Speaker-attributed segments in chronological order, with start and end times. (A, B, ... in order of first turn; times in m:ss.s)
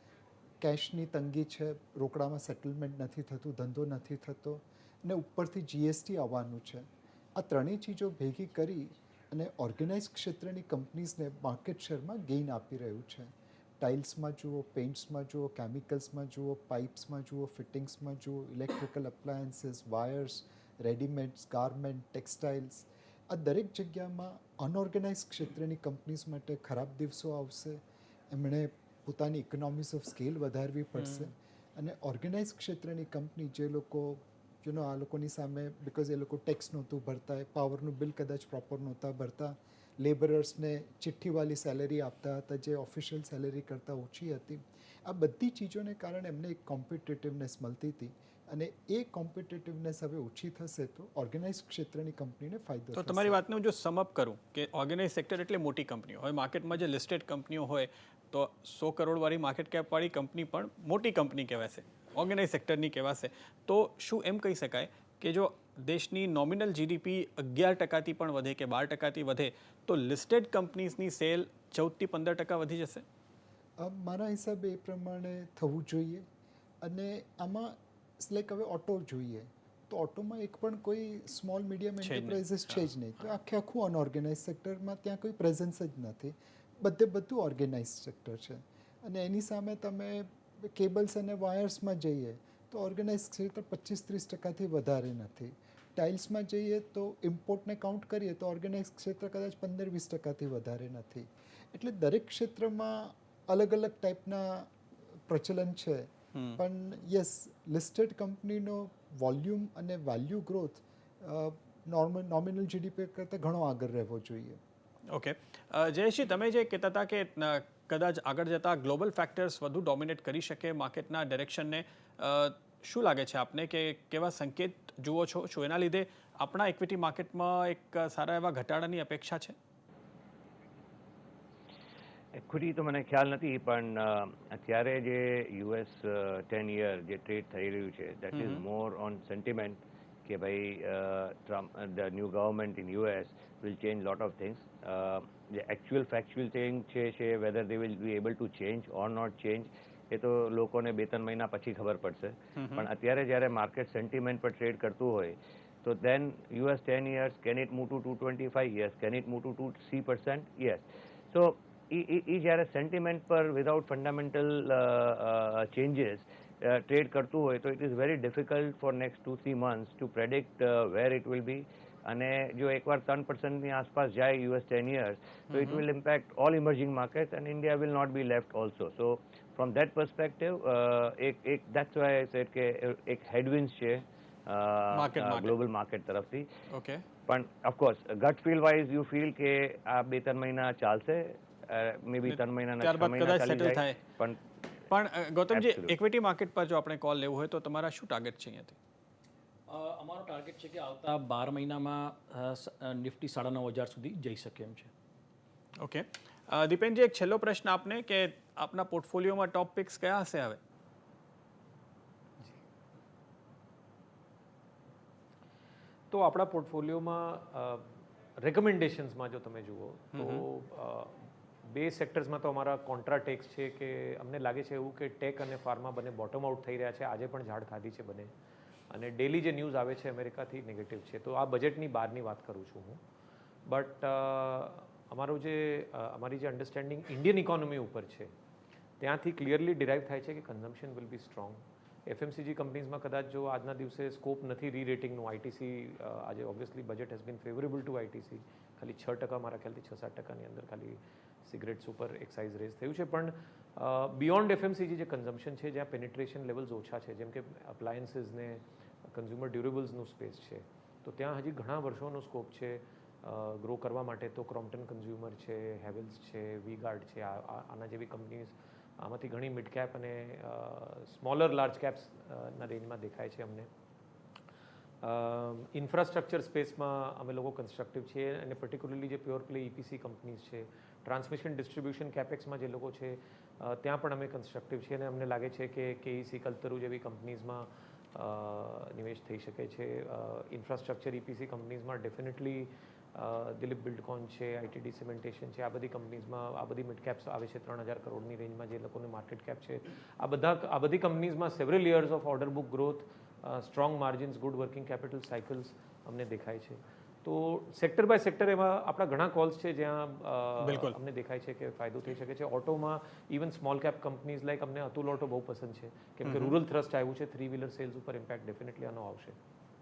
0:00.6-0:13.3 A
0:13.8-0:27.8 A
0:28.3-0:53.4 A
0:52.9-1:13.0 B
1:13.8-1:16.2 A
1:16.8-1:44.8 A
1:22.0-1:22.9 B
1:45.3-1:54.6 A
1:46.3-1:46.6 B
1:55.1-2:09.6 B
2:12.4-3:06.5 C
2:18.3-2:18.6 B
2:32.6-2:32.9 B
2:55.5-2:55.8 B
3:04.9-3:05.6 B
3:06.7-3:07.0 B
3:07.3-3:14.4 C
3:12.2-3:14.0 B
3:14.9-3:18.8 B
3:15.5-3:16.0 C
3:19.7-3:24.9 D
3:25.8-3:30.6 B
3:36.1-3:48.3 E
3:40.2-3:40.4 B
3:48.9-3:53.0 E
3:53.7-3:58.3 E
3:59.0-4:33.7 E
4:35.0-5:19.4 E
5:10.6-5:11.0 B
5:16.2-5:16.6 B